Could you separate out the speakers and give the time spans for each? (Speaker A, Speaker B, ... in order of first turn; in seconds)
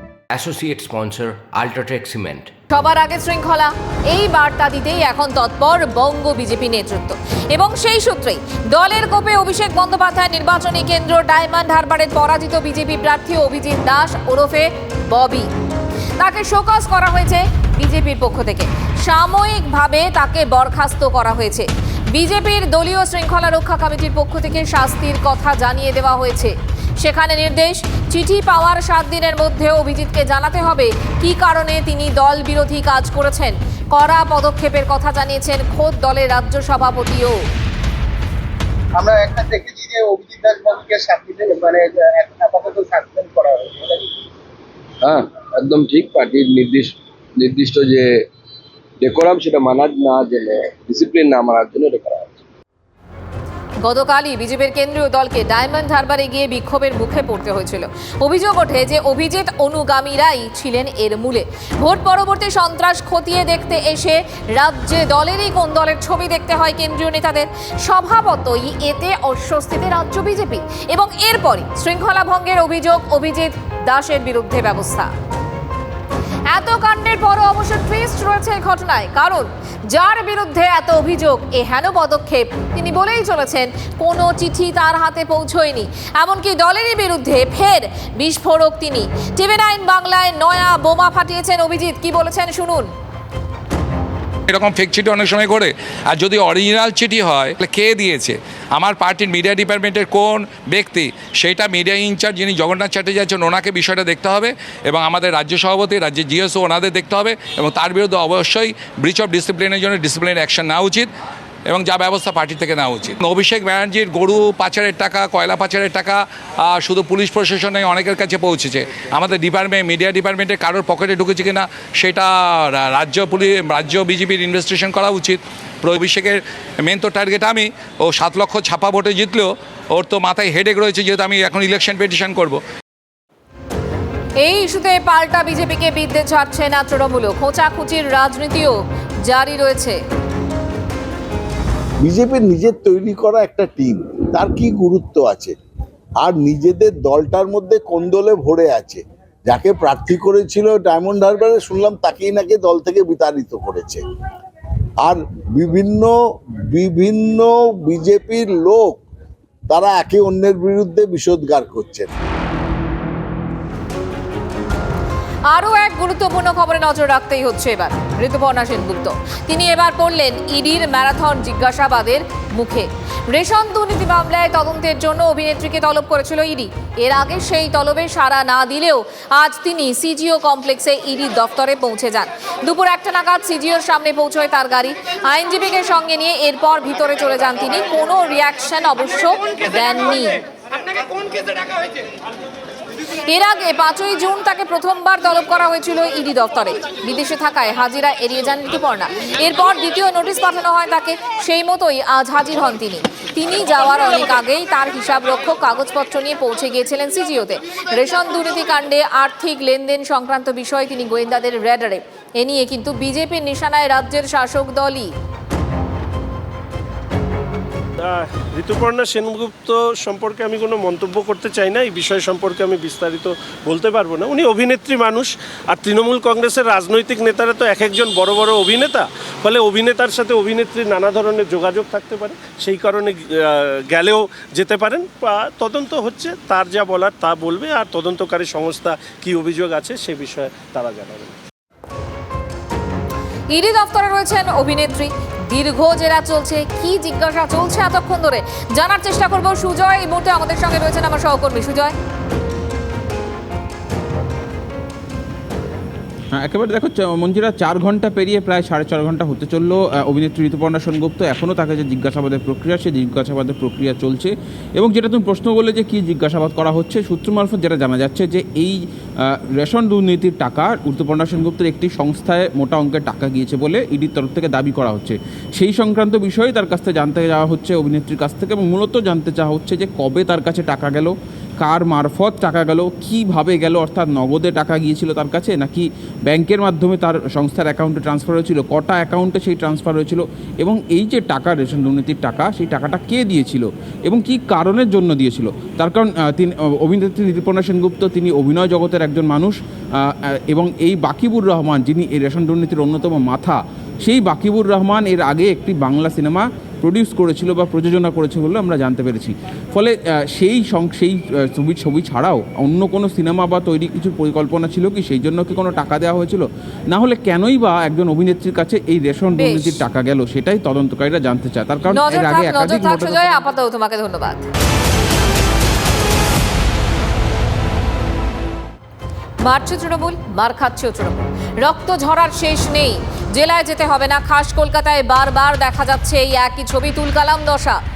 Speaker A: 0.3-2.5
Speaker B: 2.7-15.5, 16.2-37.4, 53.8-75.1, 76.5-92.9, 134.4-140.0, 165.5-190.4, 193.2-215.1, 243.5-251.9, 319.3-319.8, 321.9-324.4, 329.4-337.8
Speaker C: 39.0-44.0
Speaker D: 45.0-48.3, 49.0-52.4
Speaker E: 94.5-111.1, 111.7-132.6
Speaker F: 142.0-145.5, 146.2-154.0, 155.0-156.1, 156.7-159.0, 159.7-162.1
Speaker G: 218.0-241.3
Speaker H: 256.4-323.5